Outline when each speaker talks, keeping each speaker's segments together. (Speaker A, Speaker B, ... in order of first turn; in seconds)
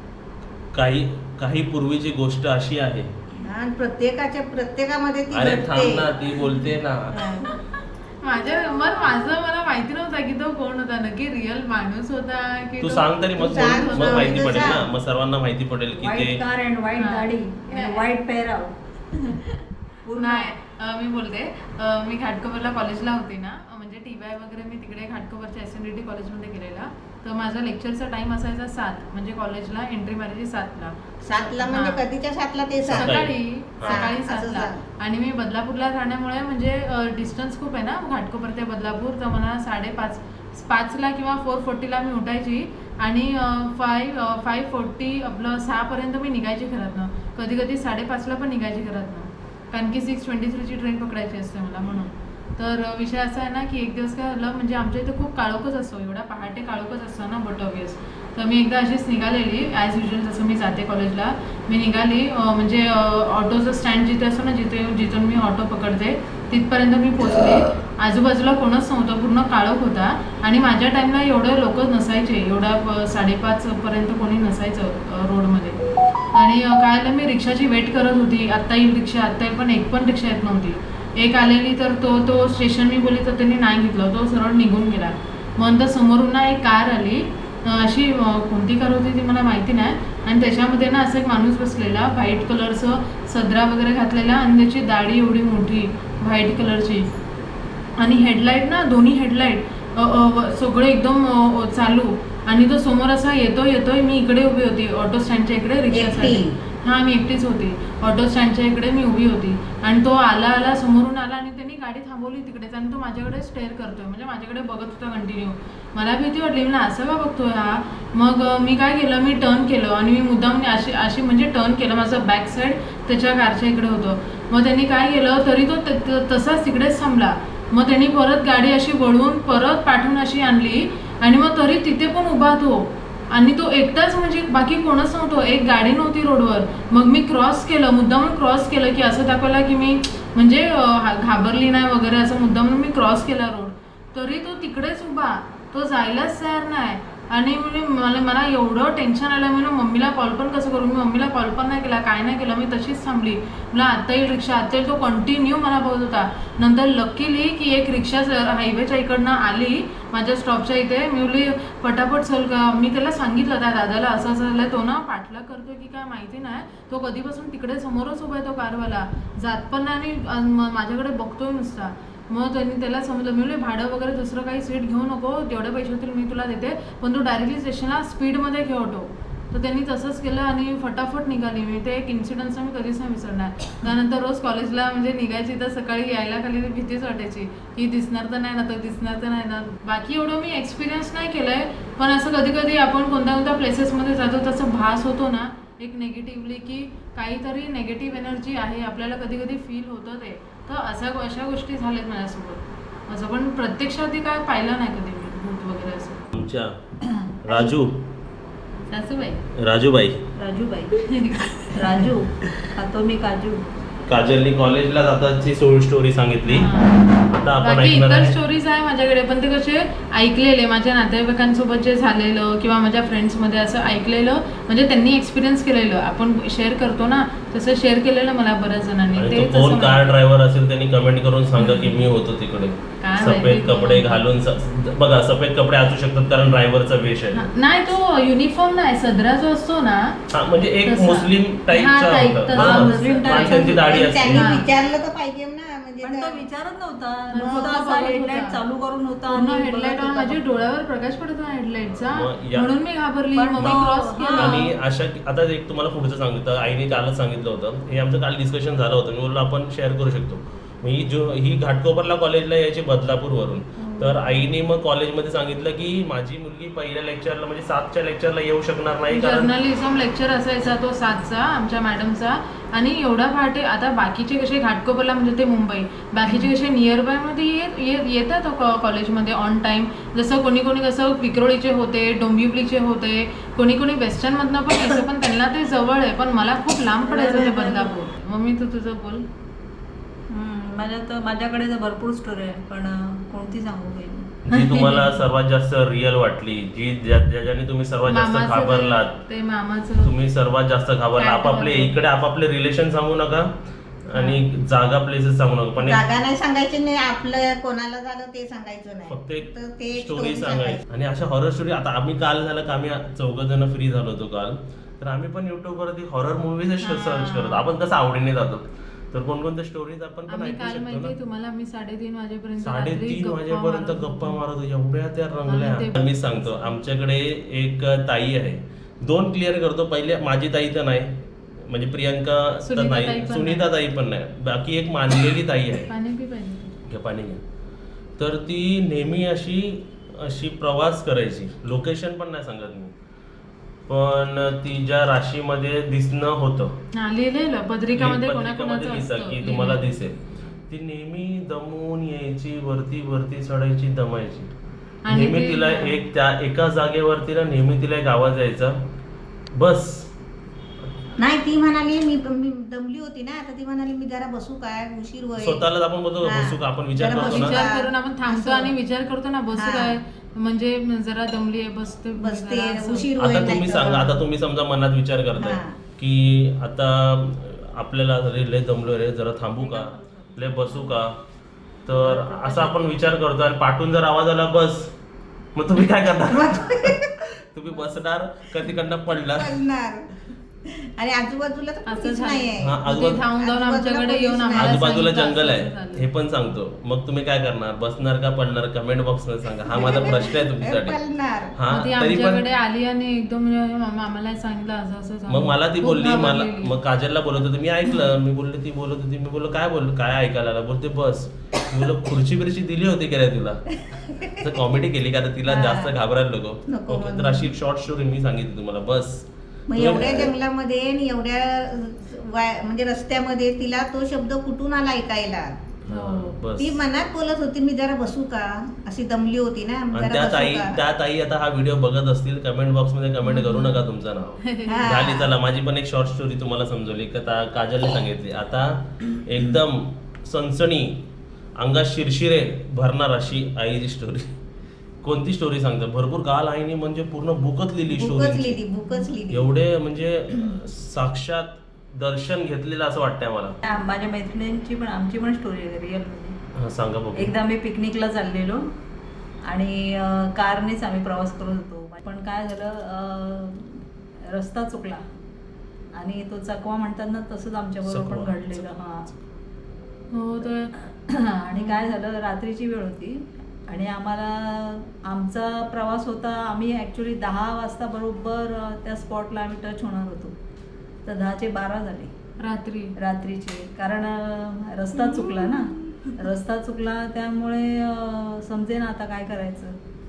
Speaker A: 0.7-3.1, 5.3-7.3, 12.8-16.4, 32.9-34.0, 206.3-206.8, 207.4-208.0, 209.6-210.2, 214.1-218.3, 229.2-237.5, 240.3-244.6, 251.9-252.7, 253.6-269.5, 294.5-299.1, 300.0-303.5, 304.1-306.0, 309.1-321.1, 322.6-335.9, 336.9-337.4, 338.2-342.9, 343.9-346.8, 348.0-354.5, 355.1-358.8, 359.5-360.1, 365.4-367.6, 373.2-381.2, 381.9-384.9, 385.6-389.6, 392.6-393.2, 394.6-401.0, 401.5-402.4, 405.3-420.3, 425.9-426.8, 429.9-441.0, 441.6-444.3, 445.0-448.6, 449.3-453.6, 456.6-457.3, 467.9-469.2
Speaker B: 3.4-6.1, 7.1-7.6, 13.4-14.9, 31.2-33.2, 33.8-34.8, 105.9-106.6, 243.8-246.4, 247.3-247.7, 305.8-310.8, 361.2-365.6, 366.2-368.8, 369.6-370.0, 372.2-374.2, 375.4-375.8, 386.3-387.3, 389.1-390.1, 390.6-395.0, 399.7-401.6, 413.9-414.3, 415.4-415.9, 416.7-417.5, 419.7-425.6, 426.6-430.8, 434.7-435.3, 447.9-449.6, 484.9-486.2
Speaker C: 8.2-14.8, 17.0-18.1, 19.1-19.6, 20.2-32.0, 33.0-75.8, 76.3-97.1, 98.0-206.3, 208.9-209.4, 211.0-211.7, 216.5-217.1, 217.6-230.1, 231.6-232.0, 233.0-234.2, 237.3-240.2, 240.8-244.7, 247.3-248.6, 249.3-254.7, 263.8-264.2, 269.1-289.2, 294.5-295.1, 298.1-300.1, 301.2-302.0, 304.1-304.4, 316.8-317.7, 320.3-324.4, 325.5-326.8, 332.7-333.7, 335.9-336.8, 346.9-349.9, 355.1-356.0, 367.1-373.1, 391.9-396.1, 401.7-406.8, 425.9-426.4, 433.2-433.8, 434.4-434.9, 470.1-470.7, 471.5-472.0, 482.4-482.9
Speaker D: 15.9-18.7, 20.0-20.5, 207.1-207.8, 210.4-211.1, 211.7-213.7, 242.6-243.9, 246.0-250.4, 253.3-254.6, 287.1-288.0, 290.3-294.4, 379.6-381.0, 381.9-382.8, 453.6-456.4, 457.1-458.7, 459.4-465.1, 465.9-469.1, 470.8-480.4, 481.1-482.1, 483.0-489.8